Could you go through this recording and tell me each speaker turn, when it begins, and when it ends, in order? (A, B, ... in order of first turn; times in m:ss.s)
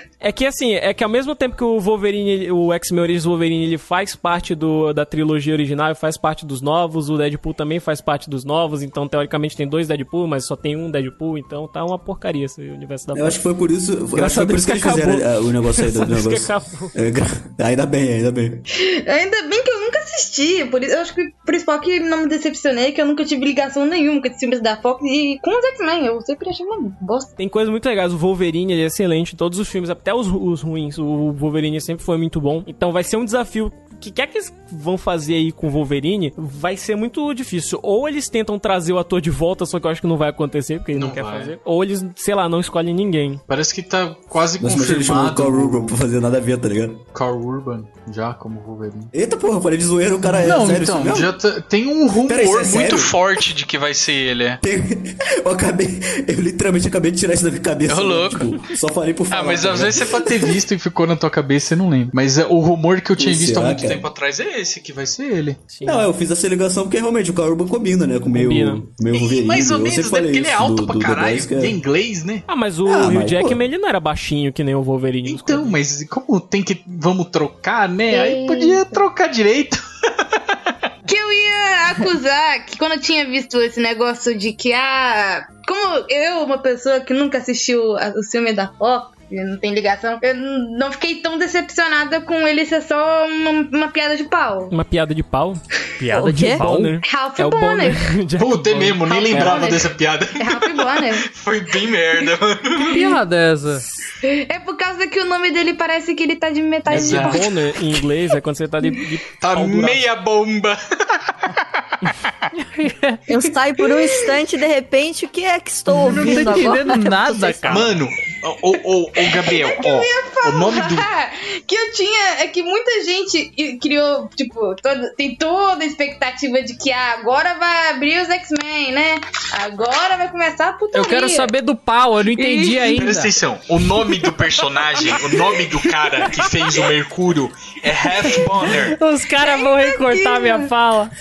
0:00.2-0:13.4 A
0:13.1-0:18.6 B
0:14.1-0:16.9 A
0:18.8-0:27.3 C
0:27.4-0:43.4 A
0:40.9-0:41.6 D
0:43.5-0:46.0 D
0:44.6-0:47.0 B
0:47.1-0:49.1 D
0:49.1-0:51.3 B
0:50.4-0:54.6 D
0:52.2-0:53.2 B
0:54.6-1:00.6 B
0:57.9-0:58.5 D
0:59.3-1:05.7 D
1:03.2-1:04.0 B
1:05.7-1:06.1 A
1:05.8-1:11.8 B
1:08.3-1:08.8 A
1:09.1-1:12.5 D
1:12.5-1:15.8 A
1:12.8-1:13.6 B
1:15.2-1:20.8 D
1:18.1-1:19.0 C
1:21.1-1:34.7 C
1:34.7-1:35.6 A
1:36.0-1:37.0 E
1:36.1-1:36.7 F
1:36.2-1:39.8 A
1:37.0-1:38.1 C
1:38.4-1:43.0 D
1:39.0-1:41.3 C
1:42.2-1:43.2 C
1:42.9-1:43.8 E
1:44.2-1:47.5 C
1:46.9-1:50.0 A
1:46.9-1:47.5 D
1:49.4-1:52.3 D
1:52.5-1:53.3 E
1:53.3-1:57.9 F
1:56.0-1:57.9 E
1:57.7-2:01.1 D
1:59.2-2:11.5 C
2:10.9-2:13.3 E
2:12.4-2:13.1 C
2:13.0-2:19.0 D
2:15.1-2:15.4 C
2:18.2-2:18.7 C
2:18.7-2:21.1 E
2:19.4-2:20.7 C